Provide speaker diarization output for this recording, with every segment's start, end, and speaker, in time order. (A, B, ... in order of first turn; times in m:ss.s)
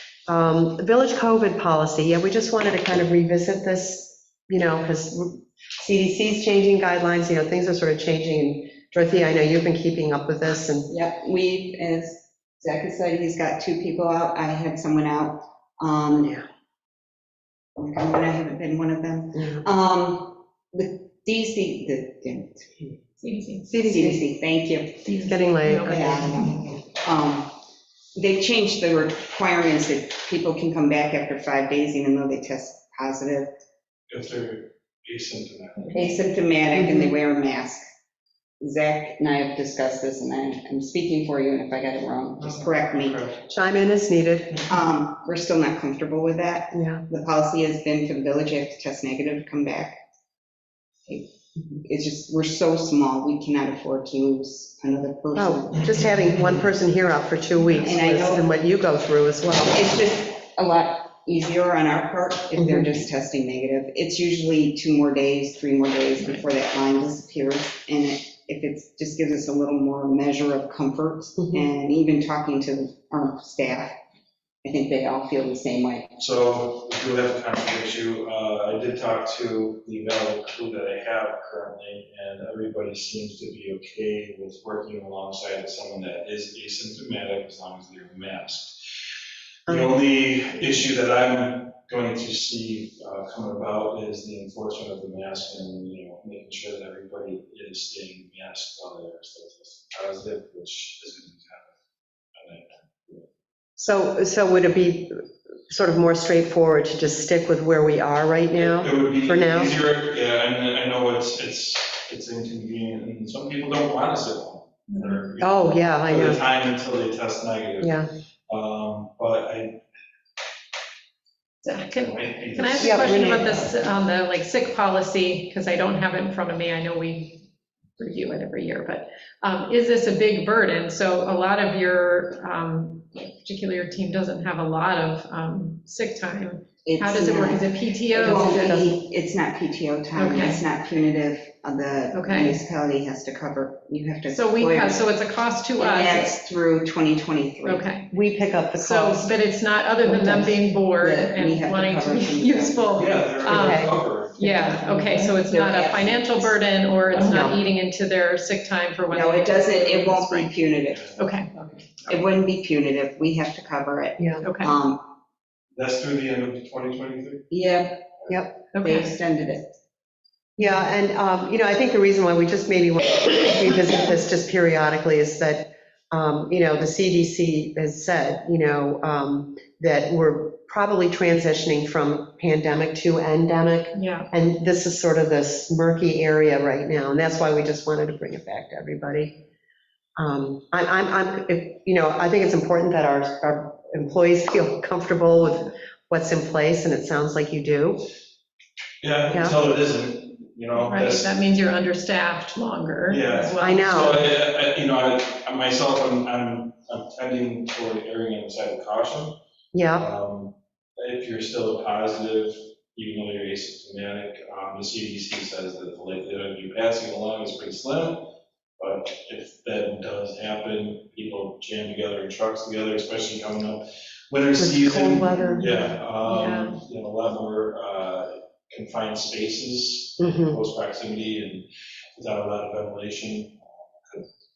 0:00.3-0:10.9 A
0:10.9-0:16.4 B
0:17.8-0:22.9 B
0:19.4-0:19.6 A
0:23.2-0:23.7 C
0:23.7-0:24.2 A
0:23.7-0:27.6 B
0:25.0-0:26.2 C
0:25.2-0:26.6 A
0:28.1-0:33.5 B
0:34.1-0:36.2 D
0:35.9-0:37.8 B
0:36.7-0:37.2 A
0:38.6-0:43.2 B
0:42.4-0:43.5 D
0:43.5-0:44.7 A
0:44.6-0:50.0 B
0:46.7-0:47.0 A
0:51.8-0:56.0 B
0:55.3-0:59.8 A
0:57.8-0:58.4 B
0:59.7-1:14.0 B
1:02.6-1:03.0 A
1:11.4-1:11.6 A
1:14.6-1:16.2 B
1:16.2-1:28.8 D
1:29.7-1:30.0 A
1:29.7-1:41.7 D
1:42.4-1:43.2 D
1:43.8-1:49.8 A
1:48.6-1:59.8 D
1:54.9-1:55.2 C
1:55.4-1:56.4 A
1:57.8-1:58.1 A
2:01.6-2:07.4 C
2:01.9-2:03.4 D
2:02.8-2:03.6 A
2:08.0-2:18.9 C
2:16.8-2:25.1 B
2:18.2-2:19.0 A
2:20.2-2:20.6 C
2:22.1-2:22.6 C
2:24.3-2:26.3 C
2:25.8-2:27.9 B
2:27.6-2:28.1 C
2:28.1-2:29.3 A
2:28.8-2:40.5 C
2:30.0-2:30.5 A
2:31.0-2:33.2 B
2:33.0-2:34.6 D
2:33.4-2:34.0 A
2:35.4-2:36.6 B
2:37.2-2:37.6 A
2:39.1-2:41.1 B
2:40.9-2:42.1 D
2:41.2-2:41.5 C
2:42.1-2:45.0 B
2:44.2-2:44.4 A
2:44.4-2:44.7 C
2:45.7-2:47.5 D
2:47.5-2:48.1 B
2:48.7-2:49.1 C
2:48.8-2:49.7 B
2:50.6-3:09.4 A
3:03.9-3:04.3 C
3:10.2-3:18.0 A
3:19.0-3:21.3 D
3:19.3-3:19.6 A
3:20.8-3:24.1 C
3:23.1-3:29.4 D
3:23.6-3:24.2 A
3:29.7-3:30.1 A
3:29.9-3:38.3 D
3:38.8-3:54.2 D
3:44.6-3:45.7 A
3:45.4-3:45.7 C
3:46.2-3:46.8 C
3:50.2-3:50.6 A